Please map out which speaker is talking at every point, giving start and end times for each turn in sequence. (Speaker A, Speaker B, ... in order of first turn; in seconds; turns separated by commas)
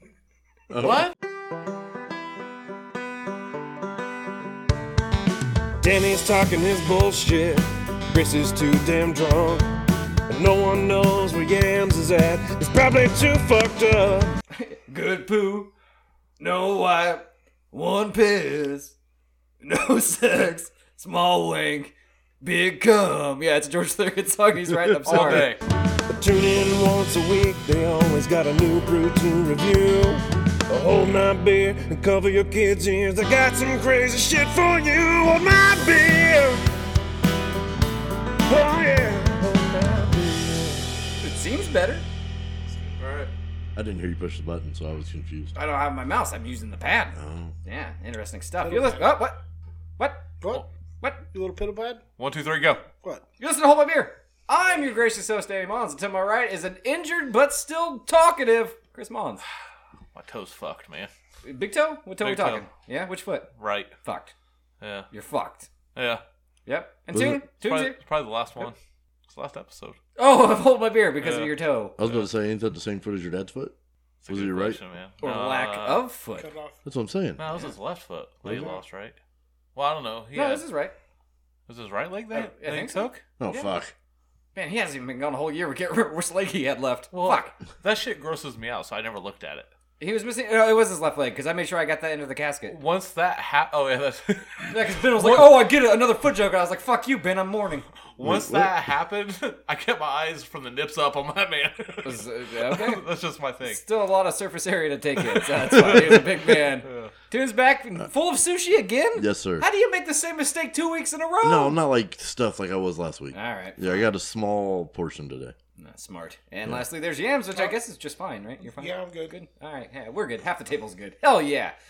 Speaker A: 0.7-1.1, Speaker B: 0.8-1.1, Speaker C: 5.8-9.7, Speaker C: 10.3-14.3, Speaker D: 14.5-15.7, Speaker D: 16.4-18.9, Speaker D: 19.6-25.5, Speaker A: 24.7-25.3, Speaker B: 25.1-25.6, Speaker C: 26.1-36.6, Speaker C: 38.5-40.9, Speaker D: 41.2-42.0, Speaker B: 43.0-43.3, Speaker A: 43.7-45.5, Speaker D: 45.5-49.4, Speaker A: 47.1-47.5, Speaker E: 48.6-49.0, Speaker D: 50.0-50.3, Speaker E: 51.3-52.0, Speaker B: 52.2-52.8, Speaker D: 53.4-59.4, Speaker B: 60.1-61.1, Speaker D: 61.4-63.5, Speaker B: 62.2-62.6, Speaker B: 63.6-63.9, Speaker D: 64.0-64.3, Speaker B: 64.8-65.1, Speaker D: 65.1-65.7, Speaker B: 65.9-66.2, Speaker D: 66.7-68.0, Speaker A: 67.1-67.4, Speaker B: 67.6-68.8, Speaker B: 69.3-70.0, Speaker D: 70.2-72.0, Speaker B: 71.2-72.3, Speaker A: 72.0-73.7, Speaker B: 74.2-76.0, Speaker A: 74.3-74.8, Speaker D: 75.2-76.5, Speaker E: 76.4-76.8, Speaker A: 76.8-77.4, Speaker B: 77.4-79.2, Speaker A: 78.4-78.7, Speaker B: 79.7-80.6, Speaker D: 80.3-80.9, Speaker B: 81.7-83.2, Speaker D: 82.3-83.8, Speaker A: 83.4-83.9, Speaker D: 84.5-87.5, Speaker B: 87.1-89.7, Speaker D: 90.0-92.8, Speaker B: 92.7-95.7, Speaker D: 94.7-97.8, Speaker B: 98.2-103.8, Speaker A: 98.2-98.7, Speaker D: 102.0-103.0, Speaker D: 103.6-111.8, Speaker B: 105.3-107.1, Speaker A: 109.2-109.6, Speaker A: 111.4-115.5, Speaker D: 113.3-113.8, Speaker D: 115.8-121.7, Speaker E: 118.6-119.3